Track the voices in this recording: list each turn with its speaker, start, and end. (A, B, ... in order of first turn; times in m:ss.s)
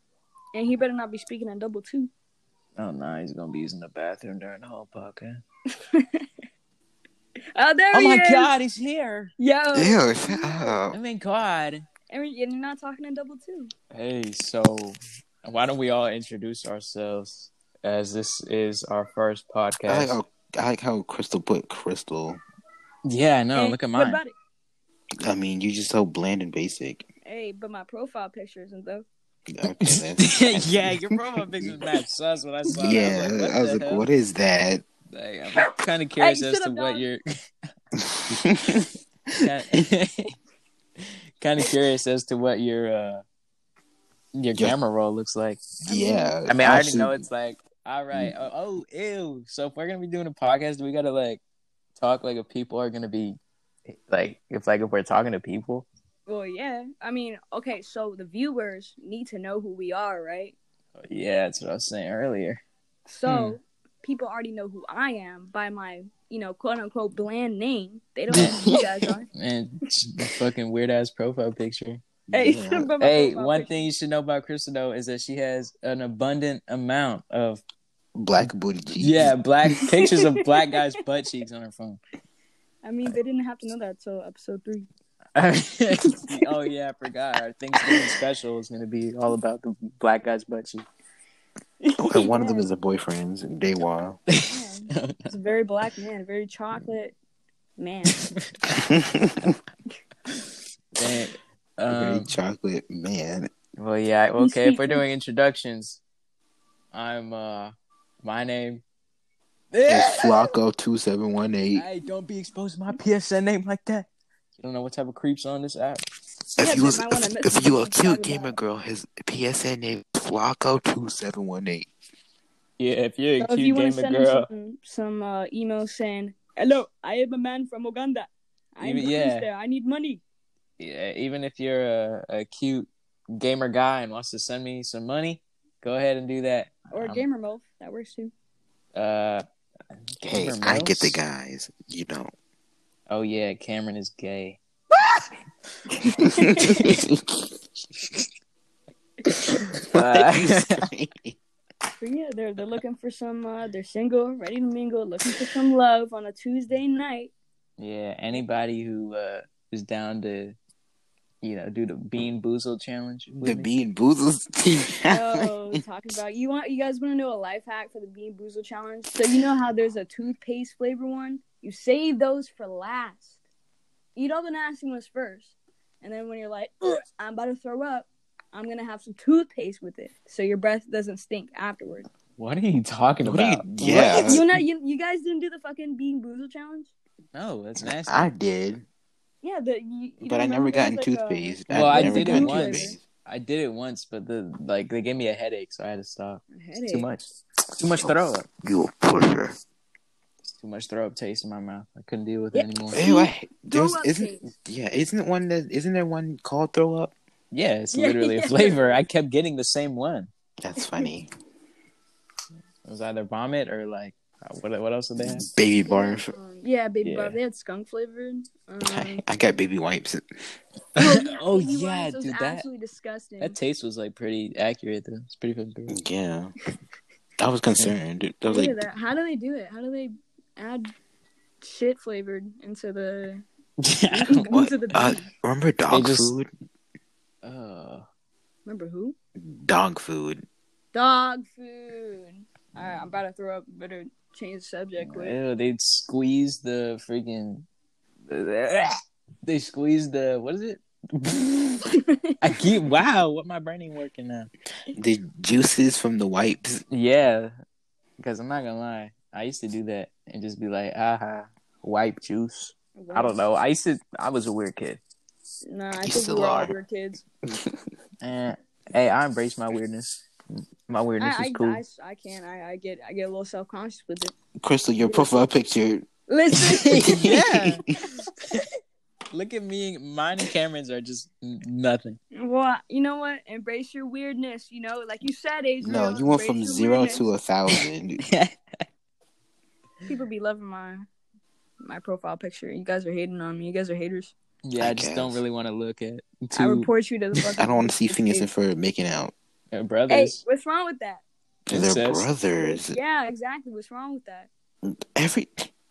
0:00.5-0:02.1 A
0:02.8-0:05.4 B
0:05.9-0:06.3 A
0:07.5-0:08.5 A
0:07.9-0:09.3 B
0:09.4-0:10.8 A
0:09.7-0:11.0 C
0:10.9-0:11.8 B
0:12.1-0:13.7 A
0:13.9-0:20.2 B
0:19.9-0:22.4 C
0:23.0-0:24.2 B
0:23.6-0:24.3 A
0:25.2-0:27.1 C
0:27.2-0:29.0 A
0:29.5-0:31.8 C
0:29.8-0:34.1 B
0:32.8-0:34.8 C
0:35.1-0:37.2 B
0:36.2-0:37.0 A
0:38.0-0:38.9 C
0:39.4-0:40.3 B
0:41.4-0:43.2 B
0:44.4-0:45.7 B
0:45.8-0:47.2 C
0:45.9-0:46.4 A
0:46.5-0:51.4 B
0:52.0-0:53.4 B
0:53.9-0:55.9 B
0:56.3-1:00.6 A
1:01.0-1:02.6 B
1:03.1-1:09.3 A
1:08.3-1:08.9 C
1:08.3-1:08.6 B
1:09.3-1:12.0 B
1:12.3-1:12.9 C
1:12.3-1:13.9 A
1:13.0-1:17.6 B
1:18.2-1:19.4 C
1:19.0-1:22.0 B
1:20.0-1:20.7 A
1:22.8-1:24.9 A
1:25.4-1:30.9 B
1:26.1-1:26.5 A
1:31.8-1:32.7 A
1:32.0-1:34.2 C
1:34.3-1:35.3 B
1:34.4-1:37.1 A
1:37.8-1:38.2 A
1:38.7-1:39.6 C
1:41.0-1:42.3 B
1:41.9-1:43.5 C
1:43.8-1:46.0 B
1:44.4-1:45.0 A
1:46.9-1:48.8 B
1:49.7-1:50.6 B
1:49.9-1:51.9 C
1:51.7-1:54.1 B
1:54.6-1:56.0 B
1:56.6-1:58.6 A
1:56.6-2:01.9 C
2:02.8-2:04.5 B
2:03.4-2:10.2 A
2:08.8-2:09.5 B
2:10.8-2:17.2 B
2:16.9-2:18.3 A
2:19.0-2:19.4 B
2:20.2-2:21.2 B
2:20.2-2:22.3 C
2:23.1-2:25.2 B
2:26.0-2:27.6 C
2:26.2-2:26.9 A
2:26.6-2:27.0 B
2:29.8-2:31.4 C
2:29.8-2:30.9 B
2:32.0-2:37.3 A
2:37.8-2:40.6 B
2:41.4-2:43.7 B
2:43.4-2:45.8 C
2:45.1-2:53.4 A
2:54.2-3:02.1 A
3:02.4-3:04.6 B
3:03.2-3:04.5 C
3:04.1-3:06.9 A
3:07.3-3:08.3 B
3:07.8-3:08.9 C
3:09.4-3:13.0 A
3:10.2-3:13.0 C
3:11.7-3:18.5 B
3:16.5-3:17.1 A
3:18.0-3:19.6 C
3:20.6-3:23.0 B
3:22.5-3:24.5 A
3:22.9-3:27.1 C
3:27.5-3:30.3 B
3:27.9-3:29.0 A
3:30.6-3:31.3 C
3:30.8-3:31.1 A
3:32.8-3:35.5 B
3:35.2-3:36.3 C
3:35.8-3:39.2 A
3:37.0-3:37.4 B
3:38.8-3:40.2 C
3:41.0-3:42.6 B
3:41.0-3:43.6 A
3:43.4-3:46.0 B
3:45.9-3:46.5 C
3:47.4-3:48.8 C
3:48.5-3:50.9 A
3:51.6-3:53.4 A
3:53.8-3:54.6 B
3:54.1-3:55.3 A
3:54.5-3:56.5 C
3:55.9-3:56.3 B
3:57.4-3:58.1 B
3:58.7-3:59.2 A
3:59.4-4:00.4 C
4:00.9-4:05.4 A
4:05.0-4:07.7 B
4:08.3-4:14.5 B
4:11.9-4:12.4 A
4:14.9-4:16.8 C
4:16.9-4:17.5 B
4:18.2-4:25.0 B
4:23.0-4:23.4 A
4:25.7-4:27.2 A
4:26.0-4:26.7 C
4:27.5-4:27.8 C
4:28.2-4:31.8 B
4:31.2-4:34.3 A
4:34.6-4:37.9 C
4:35.0-4:35.5 A
4:36.3-4:37.3 A
4:36.8-4:37.8 B
4:39.3-4:42.2 B
4:42.3-4:47.3 A
4:45.8-4:48.2 C
4:48.3-4:48.6 B
4:50.1-4:51.1 A
4:51.8-4:54.3 A
4:54.6-4:56.9 B
4:54.8-4:55.4 C
4:56.5-4:58.5 A
4:57.6-4:59.3 C
4:59.7-5:00.4 B
5:00.1-5:01.2 A
5:01.7-5:03.0 C
5:01.7-5:02.3 B
5:02.6-5:04.5 A
5:04.8-5:05.7 C